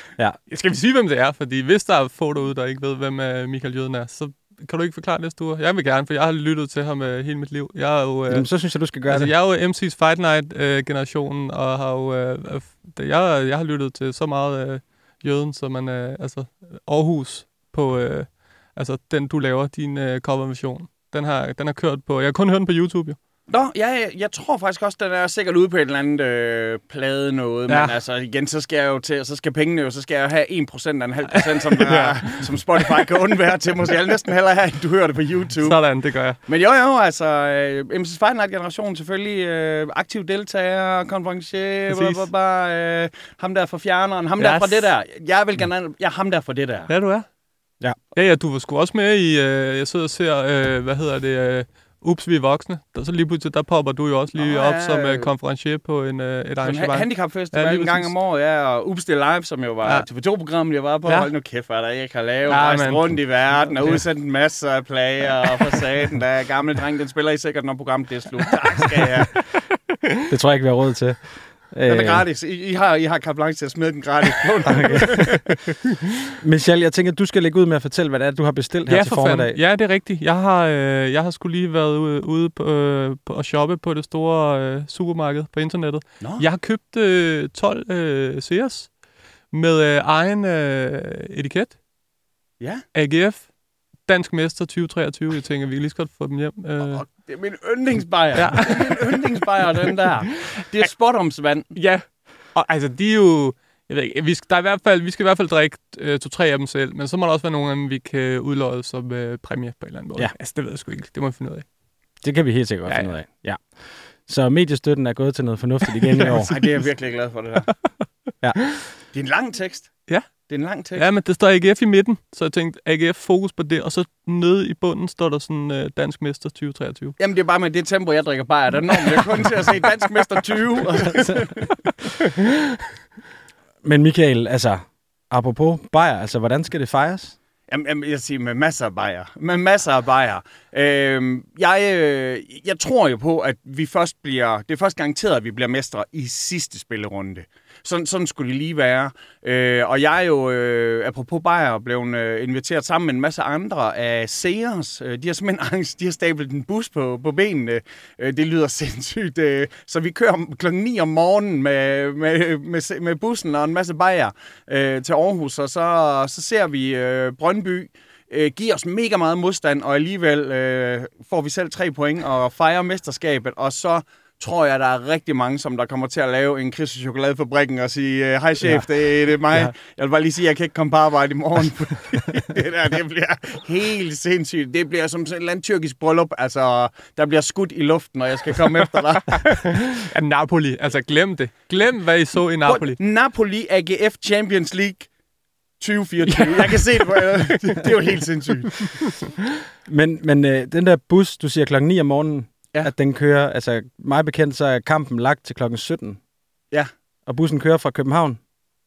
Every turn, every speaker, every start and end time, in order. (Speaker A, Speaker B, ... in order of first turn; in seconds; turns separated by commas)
Speaker A: 0.5-23.2, Speaker B: 8.3-9.3, Speaker C: 23.5-46.9, Speaker A: 27.7-27.9, Speaker A: 31.7-32.5, Speaker A: 35.6-36.4, Speaker A: 41.9-42.3, Speaker A: 44.4-44.9, Speaker A: 46.9-47.3, Speaker A: 48.1-58.1, Speaker C: 54.4-55.3, Speaker C: 56.6-69.5, Speaker A: 61.1-61.3, Speaker A: 62.5-64.0, Speaker B: 70.3-72.2, Speaker C: 71.9-75.4, Speaker B: 74.7-75.2, Speaker B: 76.4-79.6, Speaker A: 78.9-91.8, Speaker C: 86.2-86.5, Speaker C: 92.6-92.8, Speaker A: 92.9-97.1, Speaker C: 96.8-101.7, Speaker A: 98.3-99.2, Speaker A: 101.7-111.8, Speaker B: 112.2-116.5, Speaker A: 112.9-113.1, Speaker A: 116.2-116.8, Speaker C: 116.4-117.9, Speaker B: 118.4-118.7, Speaker C: 119.1-121.1, Speaker A: 120.1-127.2, Speaker C: 127.2-131.8, Speaker B: 133.8-137.4, Speaker C: 137.7-189.8, Speaker A: 189.3-193.0, Speaker C: 192.7-195.1, Speaker C: 195.8-198.9, Speaker A: 196.3-198.0, Speaker A: 198.8-199.1, Speaker B: 199.9-206.2, Speaker B: 207.3-208.4